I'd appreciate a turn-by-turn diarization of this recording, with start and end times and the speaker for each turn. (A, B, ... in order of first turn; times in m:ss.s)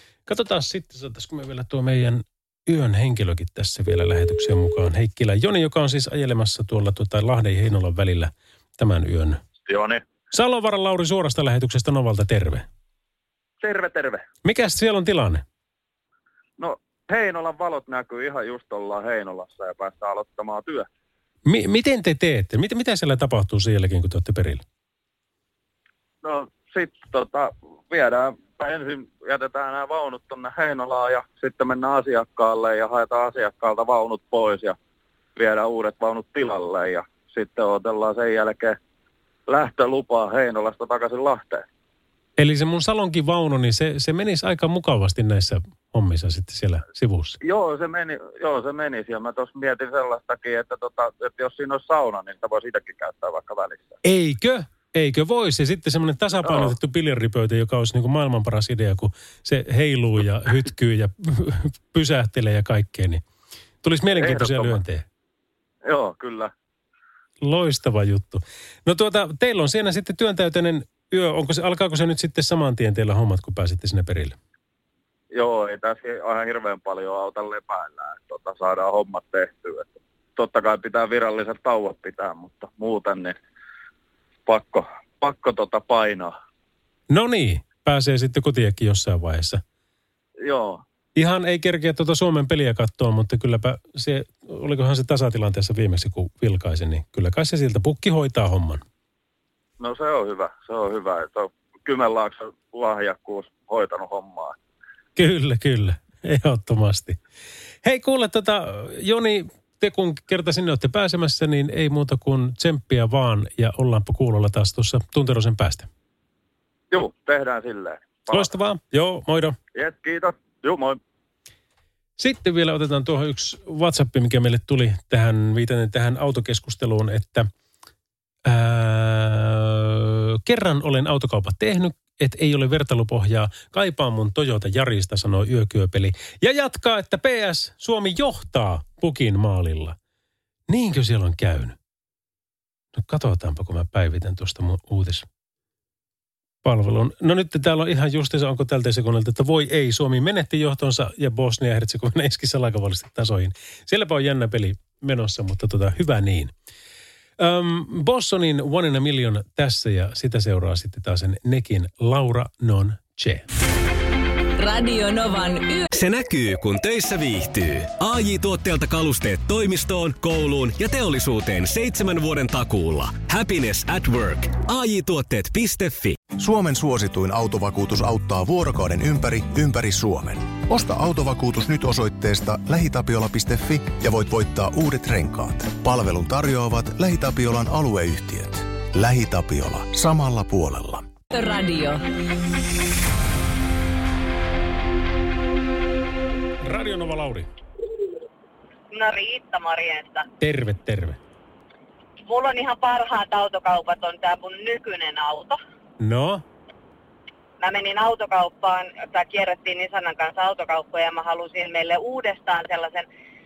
0:00.3-0:09.4 A
0:09.7-0:10.0 B
0:10.3-0:12.7 A
0:13.6-0:14.2 B
0:14.4-0:15.4 A
0:16.6-0:20.9 B
0:21.4-0:24.6 A
0:26.2-0:34.8 B
0:35.4-0:38.8 B
0:39.5-0:41.6 B
0:42.4-0:47.4 A
0:47.4-0:54.0 B
0:54.0-1:03.2 A
1:03.8-1:05.0 A
1:04.2-1:04.8 B
1:05.8-1:06.5 B
1:07.4-1:14.4 A
1:15.3-1:23.4 B
1:24.5-1:26.3 B
1:27.1-1:29.6 A
1:30.4-1:30.8 B
1:31.2-1:38.8 A
1:39.8-1:44.6 B
1:45.2-1:47.2 A
1:47.8-1:55.9 A
1:56.9-1:58.5 B
1:58.3-1:59.6 A
1:59.8-2:01.0 B
2:02.2-2:07.5 A
2:08.4-2:20.0 A
2:20.7-2:21.8 A
2:22.9-2:25.3 A
2:26.6-2:36.5 A
2:37.4-2:43.5 A
2:44.6-2:45.9 C
2:45.9-2:56.2 D
2:56.3-3:11.1 E
3:11.3-3:12.0 C
3:16.6-3:17.5 A
3:18.9-3:20.3 F
3:20.4-3:21.2 A
3:22.3-3:25.6 F
3:26.0-3:26.4 A
3:27.6-3:33.1 F